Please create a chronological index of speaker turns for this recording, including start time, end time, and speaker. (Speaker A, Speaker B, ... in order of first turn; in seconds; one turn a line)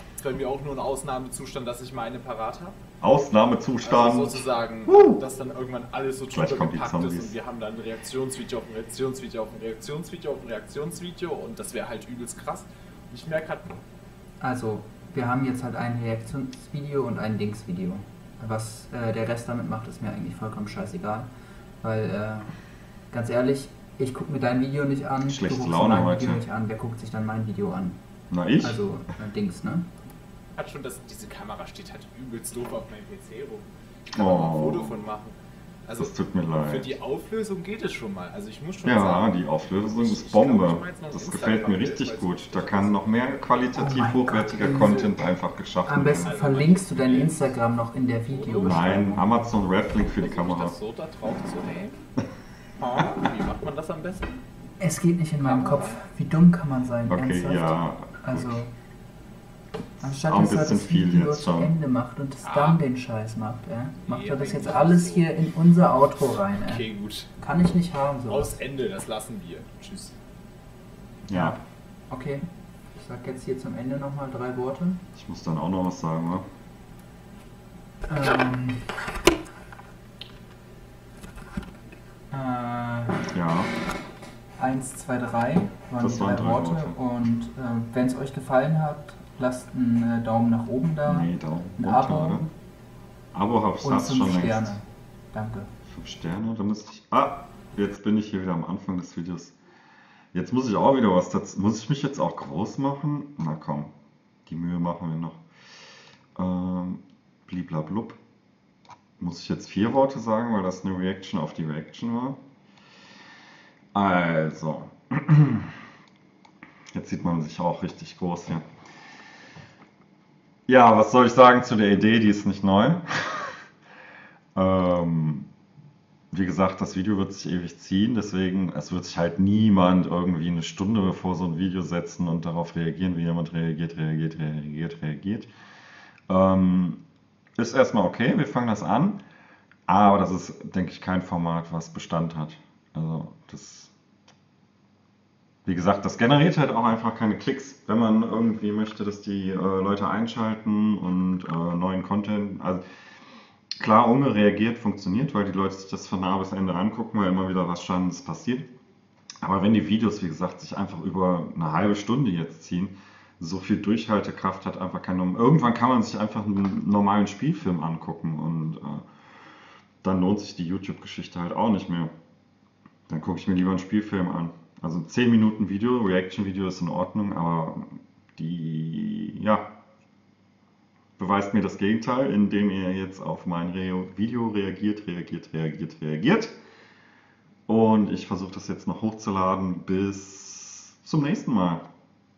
Speaker A: 0.2-2.8
Speaker B: 3.0-5.2
Speaker A: 3.8-13.7
Speaker B: 6.3-7.4
Speaker C: 14.4-21.3
Speaker C: 21.8-22.5
Speaker C: 23.1-28.0
Speaker B: 25.3-26.4
Speaker B: 28.3-28.8
Speaker C: 28.6-29.9
Speaker A: 30.6-43.0
Speaker B: 34.1-35.1
Speaker B: 36.0-37.0
Speaker B: 38.8-46.3
Speaker C: 43.7-45.2
Speaker C: 45.9-49.3
Speaker A: 46.1-47.6
Speaker A: 48.3-49.2
Speaker B: 48.6-50.8
Speaker A: 50.2-52.1
Speaker A: 52.8-54.4
Speaker C: 54.8-58.7
Speaker A: 55.4-56.0
Speaker B: 57.1-58.6
Speaker C: 60.0-66.9
Speaker B: 60.0-61.8
Speaker A: 62.4-62.8
Speaker A: 64.0-65.3
Speaker A: 66.6-67.3
Speaker C: 67.4-68.6
Speaker A: 68.3-70.2
Speaker B: 71.3-71.6
Speaker C: 71.3-75.0
Speaker B: 75.2-76.5
Speaker C: 78.1-78.8
Speaker C: 82.3-83.3
Speaker B: 83.3-83.7
Speaker C: 84.6-92.4
Speaker B: 86.0-87.0
Speaker B: 91.0-92.5
Speaker B: 93.3-94.8
Speaker C: 93.8-95.7
Speaker B: 95.9-99.5
Speaker B: 100.3-103.9
Speaker B: 104.5-105.4
Speaker B: 106.4-108.2
Speaker B: 109.2-112.4
Speaker B: 113.9-115.8
Speaker B: 116.9-118.7
Speaker B: 120.7-123.6
Speaker B: 124.5-125.5
Speaker B: 126.3-135.5
Speaker B: 136.3-137.0
Speaker B: 137.6-139.2
Speaker B: 139.9-143.9
Speaker B: 145.7-152.8
Speaker B: 153.8-158.7
Speaker B: 159.4-169.1
Speaker B: 170.0-172.1
Speaker B: 173.1-179.7
Speaker B: 181.2-186.6
Speaker B: 187.7-191.9